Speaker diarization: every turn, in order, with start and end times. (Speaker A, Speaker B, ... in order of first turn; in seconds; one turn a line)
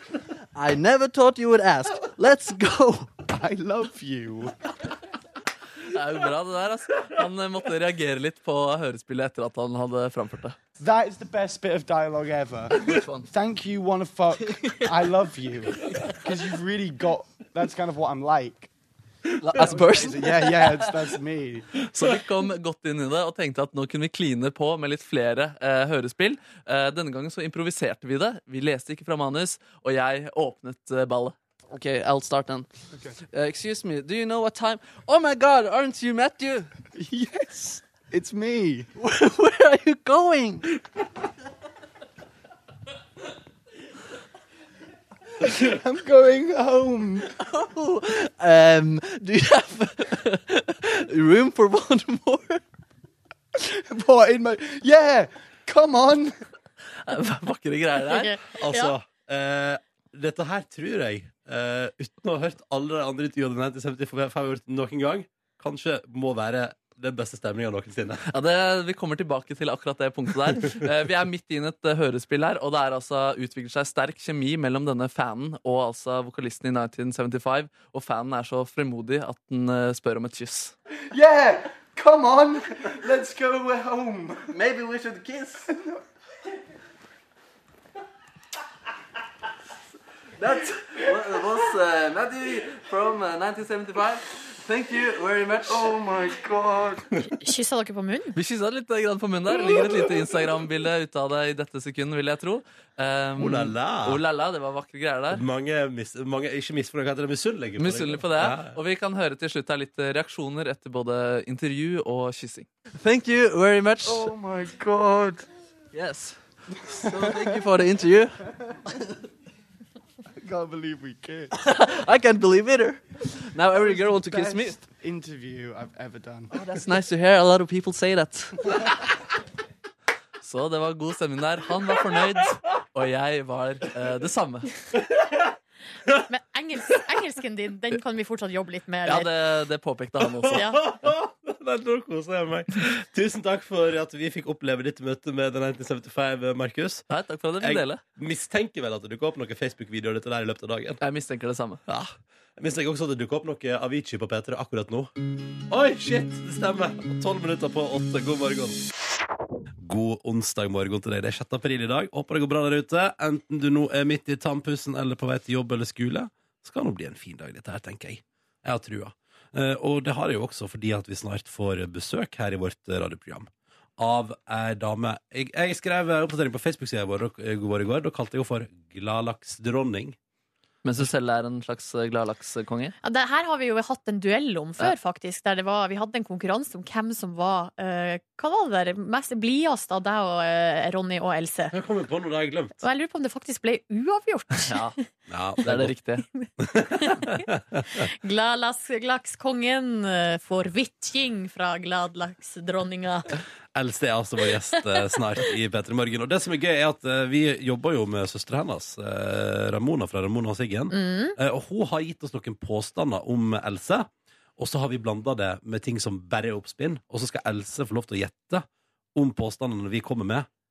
Speaker A: 0.5-3.2
Speaker B: 3.3-4.5
Speaker C: 5.8-10.6
Speaker B: 10.8-18.7
Speaker A: 19.4-20.9
Speaker B: 19.6-21.7
Speaker C: 21.9-31.3
Speaker A: 31.7-32.6
Speaker A: 33.2-36.7
Speaker B: 37.0-38.9
Speaker A: 39.0-40.7
Speaker B: 45.4-47.3
Speaker A: 47.4-52.6
Speaker B: 53.5-56.3
Speaker C: 57.0-58.3
Speaker D: 58.1-58.9
Speaker E: 58.5-68.2
Speaker C: 68.3-80.7
Speaker B: 81.1-84.5
Speaker A: 84.5-85.7
Speaker B: 85.7-86.0
Speaker A: 90.4-96.0
Speaker B: 95.7-97.0
Speaker D: 97.4-98.3
Speaker C: 98.3-105.4
Speaker E: 103.4-104.2
Speaker E: 105.3-108.7
Speaker C: 107.8-112.7
Speaker A: 113.0-114.3
Speaker B: 114.0-115.4
Speaker A: 115.9-116.4
Speaker A: 116.9-118.4
Speaker B: 117.0-117.6
Speaker B: 120.4-121.5
Speaker A: 121.5-124.7
Speaker B: 123.7-126.5
Speaker A: 126.5-128.5
Speaker C: 126.8-128.4
Speaker C: 130.4-134.7
Speaker D: 136.3-139.3
Speaker C: 139.1-140.8
Speaker E: 140.4-147.0
Speaker D: 140.5-140.8
Speaker C: 147.1-148.0
Speaker E: 147.6-151.0
Speaker C: 151.0-151.8
Speaker E: 151.9-155.1
Speaker E: 155.7-158.8
Speaker E: 159.8-180.2
Speaker C: 180.8-182.9
Speaker D: 183.0-191.7
Speaker E: 191.7-192.7
Speaker D: 192.8-194.8
Speaker C: 194.7-194.9
Speaker E: 195.3-195.9
Speaker C: 195.6-196.2
Speaker E: 196.6-198.1
Speaker D: 197.0-197.4
Speaker D: 198.0-203.3
Speaker E: 203.7-220.5
Speaker D: 210.9-211.3